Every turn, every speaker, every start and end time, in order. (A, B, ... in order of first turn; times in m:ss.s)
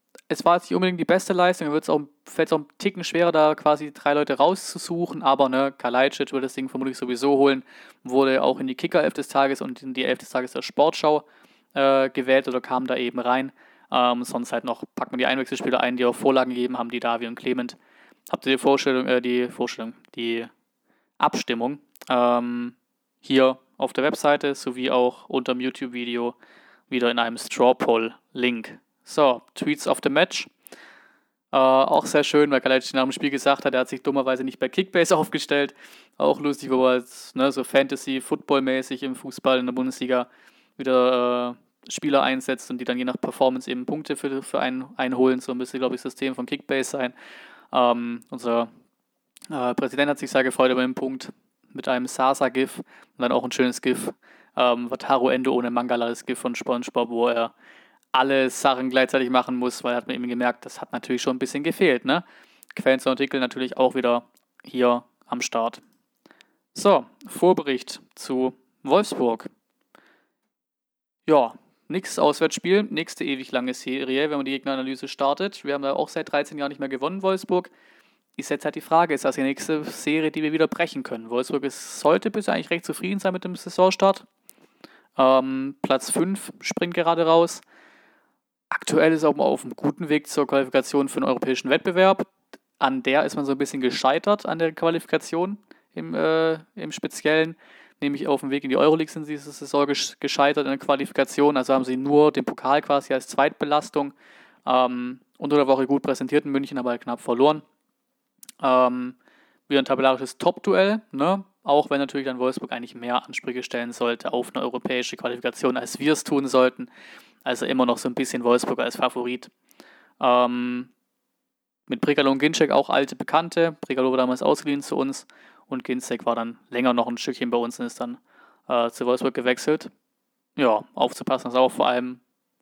0:00.3-0:17.8 A
0:18.3-0:20.5 A
0:21.2-0:26.3 A
0:26.9-0:30.5 A
0:31.5-0:47.1 A
0:47.7-0:48.7 A
0:49.5-0:57.5 A
0:58.1-1:05.8 A
1:06.7-1:09.5 A
1:11.2-1:17.7 A
1:18.4-1:24.2 A
1:25.2-1:27.6 A
1:28.7-1:44.1 A
1:44.6-1:47.6 A
1:48.6-1:49.2 A
1:49.7-1:56.9 A
1:57.4-1:59.5 A
2:00.2-2:00.9 A
2:01.9-2:09.9 A
2:10.6-2:12.2 A